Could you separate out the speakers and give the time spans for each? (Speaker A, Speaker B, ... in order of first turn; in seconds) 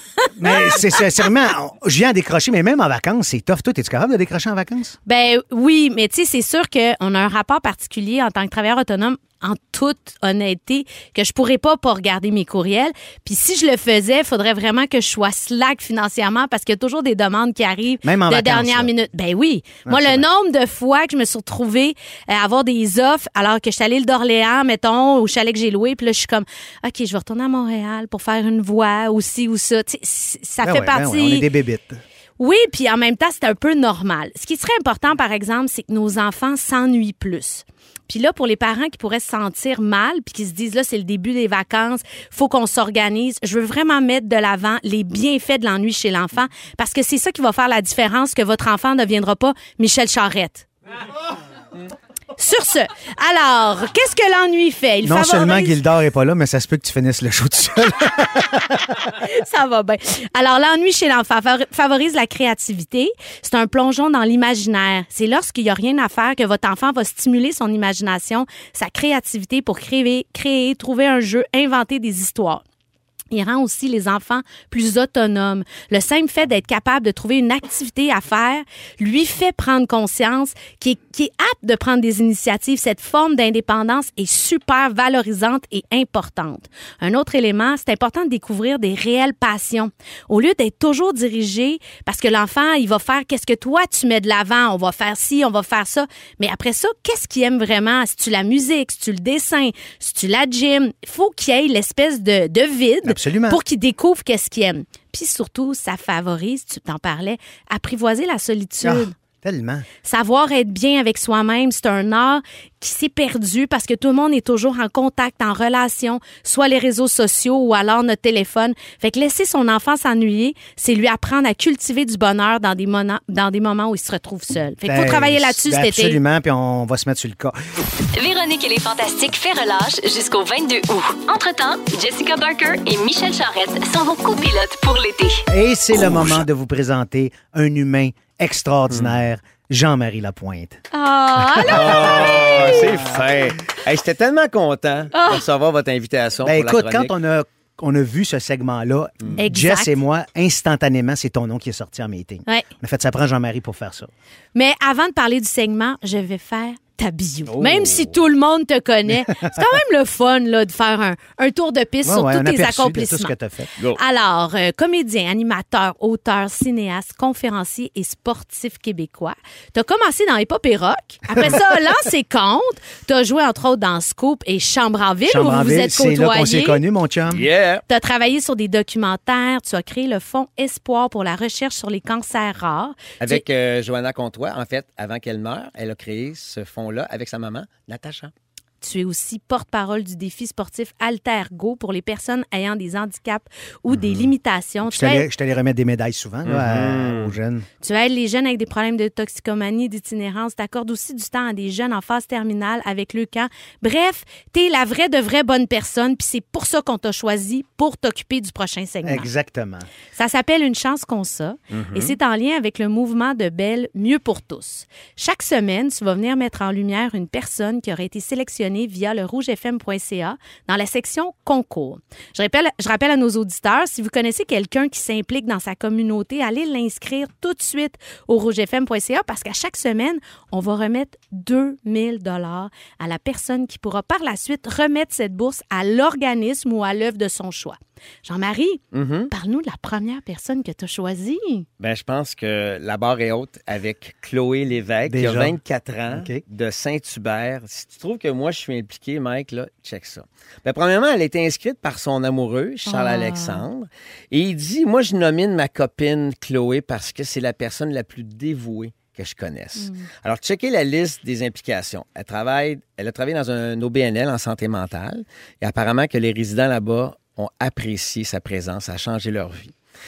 Speaker A: 0.3-5.0, 18.0-18.9, 19.8-20.2, 30.6-32.0, 55.0-59.1, 103.0-103.6, 108.8-109.8, 124.8-127.5, 135.5-140.8, 141.4-143.2, 146.4-154.1, 157.5-158.1, 162.0-163.7, 175.3-177.4, 194.8-197.7, 209.0-209.9, 245.1-245.6, 246.1-246.4
Speaker B: 5.0-31.4, 32.4-50.7, 52.4-55.8, 59.2-72.6, 73.3-109.1, 110.0-126.2, 140.9-142.9, 145.1-145.4, 149.4-149.9, 154.5-163.3, 163.9-176.8, 177.9-183.4, 188.8-195.2, 197.8-209.3, 210.2-241.7, 252.8-253.6, 259.8-260.1
Speaker C: 128.1-135.4
Speaker D: 136.1-136.3, 141.7-147.1, 177.3-177.8, 183.2-188.3, 193.9-194.2, 196.4-197.3, 211.7-212.1, 238.9-239.3, 241.8-269.7